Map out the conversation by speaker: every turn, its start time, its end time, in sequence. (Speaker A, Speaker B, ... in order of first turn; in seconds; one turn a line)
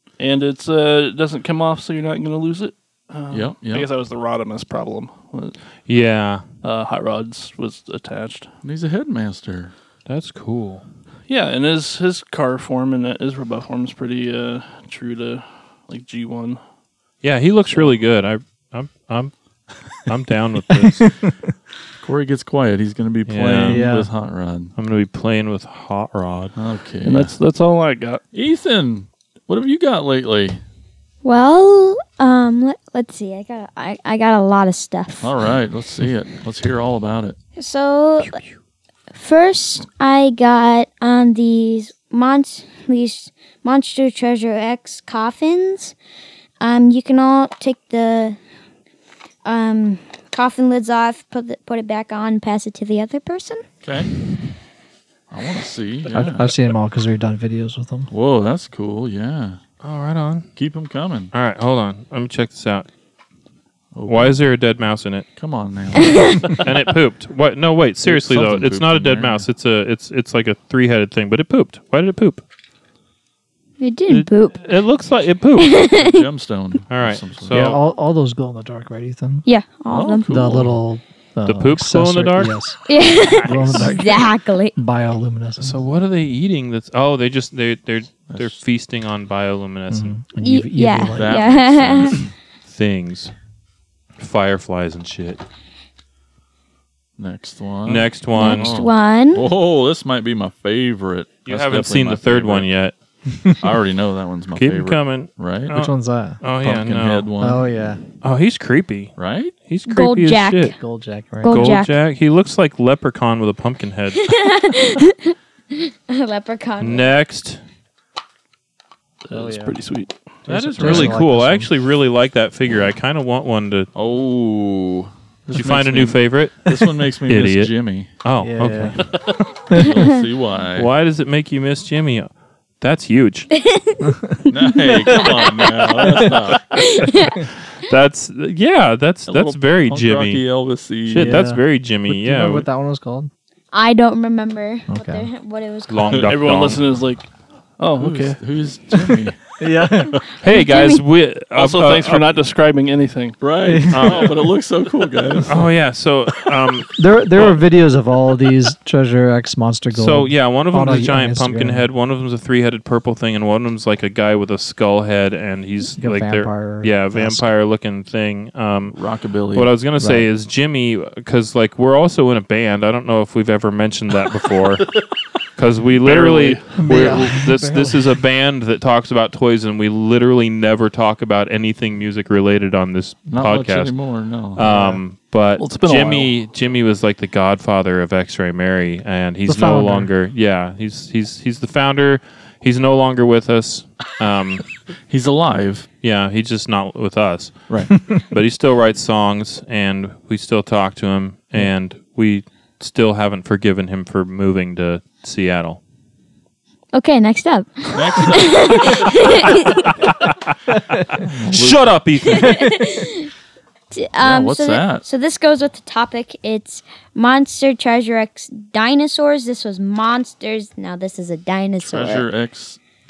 Speaker A: 0.2-5.6
Speaker B: 3.3-3.9
Speaker C: 5.9-6.4
Speaker A: 6.6-8.5
Speaker B: 8.6-9.7
Speaker C: 10.1-10.8
Speaker A: 11.3-16.6
Speaker C: 17.2-19.3
Speaker C: 19.9-21.1
Speaker D: 20.8-21.3
Speaker B: 22.0-24.7
Speaker C: 23.3-23.8
Speaker D: 23.7-24.1
Speaker C: 24.8-26.6
Speaker B: 26.6-27.3
Speaker A: 27.0-28.2
Speaker B: 28.3-30.6
Speaker E: 31.2-35.3
Speaker B: 35.2-37.4
Speaker E: 37.6-38.4
Speaker E: 39.1-46.0
Speaker E: 46.6-48.4
Speaker E: 49.5-53.6
Speaker B: 53.8-54.1
Speaker B: 55.3-56.5
Speaker D: 56.1-58.1
Speaker B: 58.1-59.6
Speaker C: 59.8-60.5
Speaker B: 60.6-61.3
Speaker C: 61.3-62.9
Speaker B: 63.9-64.4
Speaker C: 64.1-65.3
Speaker B: 65.4-66.6
Speaker E: 66.0-66.4
Speaker C: 66.6-72.4
Speaker B: 68.0-69.5
Speaker E: 73.8-74.6
Speaker C: 74.1-75.7
Speaker E: 75.6-76.2
Speaker B: 75.8-77.8
Speaker C: 76.9-77.8
Speaker D: 77.5-79.5
Speaker E: 79.5-80.3
Speaker B: 79.9-80.8
Speaker D: 80.3-82.8
Speaker C: 81.5-82.5
Speaker E: 82.9-84.8
Speaker C: 83.4-83.9
Speaker D: 83.4-84.2
Speaker D: 84.8-85.8
Speaker C: 85.6-90.2
Speaker B: 88.3-88.6
Speaker D: 89.9-91.4
Speaker E: 90.4-92.2
Speaker B: 91.1-92.3
Speaker C: 92.7-93.3
Speaker C: 94.2-95.4
Speaker B: 97.2-102.7
Speaker C: 97.9-98.8
Speaker E: 98.4-99.5
Speaker C: 101.5-103.0
Speaker B: 103.6-105.8
Speaker C: 104.6-107.3
Speaker D: 105.7-106.4
Speaker B: 106.6-107.7
Speaker D: 107.4-108.0
Speaker C: 108.2-109.1
Speaker B: 109.2-109.5
Speaker C: 109.7-110.8
Speaker E: 109.9-110.8
Speaker D: 110.8-111.8
Speaker E: 111.4-111.9
Speaker C: 111.5-114.3
Speaker E: 114.1-117.1
Speaker C: 116.8-117.6
Speaker A: 119.2-121.2
Speaker D: 119.3-119.8
Speaker C: 120.5-123.9
Speaker D: 120.5-121.7
Speaker B: 124.0-128.1
Speaker C: 125.5-129.2
Speaker D: 128.4-129.0
Speaker B: 129.5-130.9
Speaker C: 130.8-133.5
Speaker E: 133.5-134.1
Speaker B: 134.5-136.6
Speaker E: 134.7-136.0
Speaker E: 136.7-137.5
Speaker C: 137.8-140.4
Speaker B: 139.3-141.4
Speaker C: 141.1-142.7
Speaker D: 141.1-143.3
Speaker E: 143.7-146.2
Speaker D: 144.9-145.3
Speaker C: 145.9-146.9
Speaker A: 146.2-148.4
Speaker B: 148.0-150.3
Speaker D: 149.0-150.2
Speaker C: 150.4-152.3
Speaker E: 150.5-151.0
Speaker A: 151.5-153.4
Speaker B: 153.4-155.6
Speaker D: 153.7-154.4
Speaker C: 153.9-154.2
Speaker C: 155.5-157.5
Speaker D: 157.0-161.9
Speaker C: 159.9-169.0
Speaker D: 166.0-167.5
Speaker B: 168.9-169.7
Speaker C: 169.5-175.0
Speaker D: 170.0-170.3
Speaker C: 175.6-184.0
Speaker A: 176.0-177.4
Speaker D: 176.8-178.2
Speaker B: 183.3-184.6
Speaker C: 184.5-194.7
Speaker D: 184.6-185.0
Speaker A: 185.6-186.3
Speaker D: 189.5-190.1
Speaker B: 195.1-195.9
Speaker C: 196.0-205.8
Speaker B: 197.7-197.9
Speaker E: 206.9-210.0
Speaker B: 207.9-209.1
Speaker C: 209.8-210.5
Speaker B: 211.2-212.0
Speaker C: 211.5-212.6
Speaker E: 212.3-213.3
Speaker E: 213.9-222.3
Speaker B: 214.2-215.1
Speaker B: 221.8-222.8